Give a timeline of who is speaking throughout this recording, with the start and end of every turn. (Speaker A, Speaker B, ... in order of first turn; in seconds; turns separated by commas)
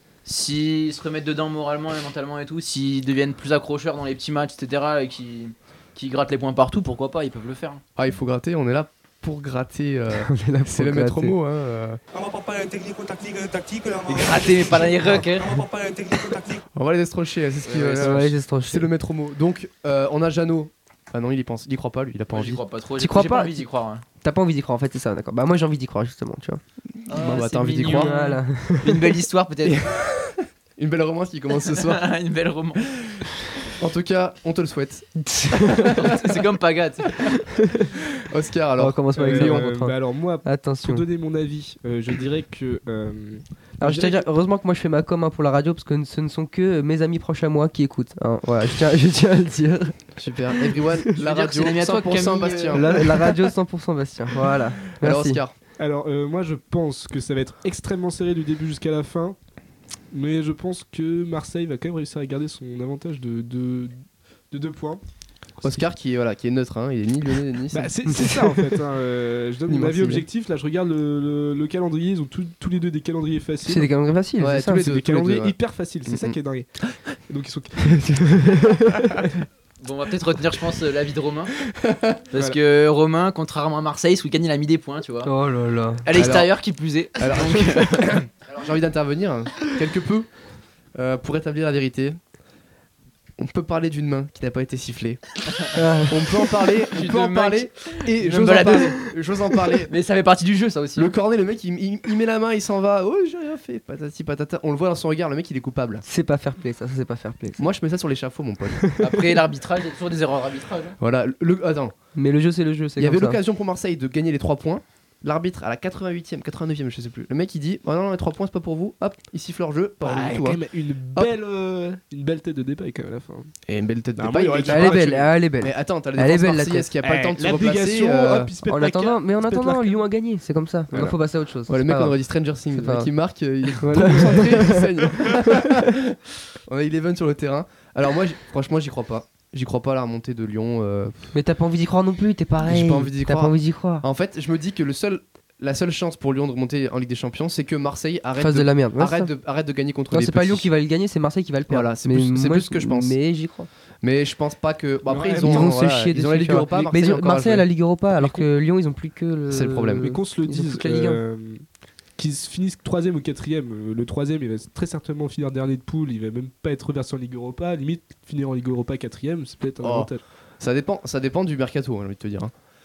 Speaker A: 0.2-7.8, Speaker B: 8.0-12.0, Speaker C: 10.1-11.3, Speaker D: 12.1-16.6, Speaker A: 14.1-15.6, Speaker B: 16.7-22.6, Speaker A: 17.6-18.2, Speaker C: 17.9-18.9, Speaker A: 22.3-24.0, Speaker C: 23.0-23.6, Speaker C: 24.2-26.6, Speaker A: 27.1-29.9, Speaker C: 27.1-29.1, Speaker B: 27.1-28.1, Speaker B: 29.6-32.0, Speaker A: 31.6-32.8, Speaker B: 33.1-36.4, Speaker C: 35.2-36.1, Speaker A: 35.9-37.2, Speaker C: 37.2-37.9, Speaker B: 38.1-39.7, Speaker C: 38.8-41.0, Speaker E: 39.1-44.2, Speaker C: 43.8-49.9, Speaker B: 50.2-52.9, Speaker A: 51.2-52.8, Speaker C: 52.7-55.4, Speaker B: 55.0-55.5, Speaker E: 55.8-59.4, Speaker E: 60.1-64.0, Speaker E: 64.5-65.0, Speaker B: 65.6-67.9, Speaker E: 67.7-73.9, Speaker C: 68.1-68.7, Speaker B: 69.7-70.2, Speaker C: 73.7-74.8, Speaker B: 74.4-76.4, Speaker E: 74.7-78.0, Speaker C: 77.8-79.3, Speaker A: 79.8-81.5, Speaker B: 81.8-82.2, Speaker A: 82.3-85.3, Speaker C: 85.2-86.0, Speaker A: 86.0-88.2, Speaker B: 86.1-86.5, Speaker B: 87.2-90.3, Speaker B: 90.9-92.2, Speaker B: 93.4-95.2, Speaker C: 95.7-96.4, Speaker B: 96.1-99.9, Speaker A: 96.9-99.0, Speaker C: 98.2-99.0, Speaker A: 99.9-101.1, Speaker B: 101.0-106.0, Speaker C: 106.0-107.6, Speaker B: 107.6-108.8, Speaker A: 109.0-111.0, Speaker B: 111.0-111.9, Speaker C: 112.1-113.4, Speaker B: 113.0-120.6, Speaker E: 120.0-123.5, Speaker B: 123.7-128.5, Speaker E: 124.2-125.3, Speaker C: 124.7-126.9, Speaker E: 127.0-130.0, Speaker C: 128.7-132.2, Speaker E: 130.9-131.2, Speaker B: 131.7-141.3, Speaker C: 132.7-133.1, Speaker C: 133.8-134.8, Speaker E: 133.9-135.4, Speaker C: 141.3-144.0, Speaker B: 142.6-150.7, Speaker C: 148.4-149.3, Speaker C: 150.1-153.7, Speaker B: 151.7-153.2, Speaker B: 154.0-157.7, Speaker E: 155.1-155.8, Speaker C: 155.4-161.2, Speaker E: 158.2-158.5, Speaker B: 159.5-160.2, Speaker E: 159.9-161.6, Speaker E: 162.2-170.2, Speaker B: 169.8-172.5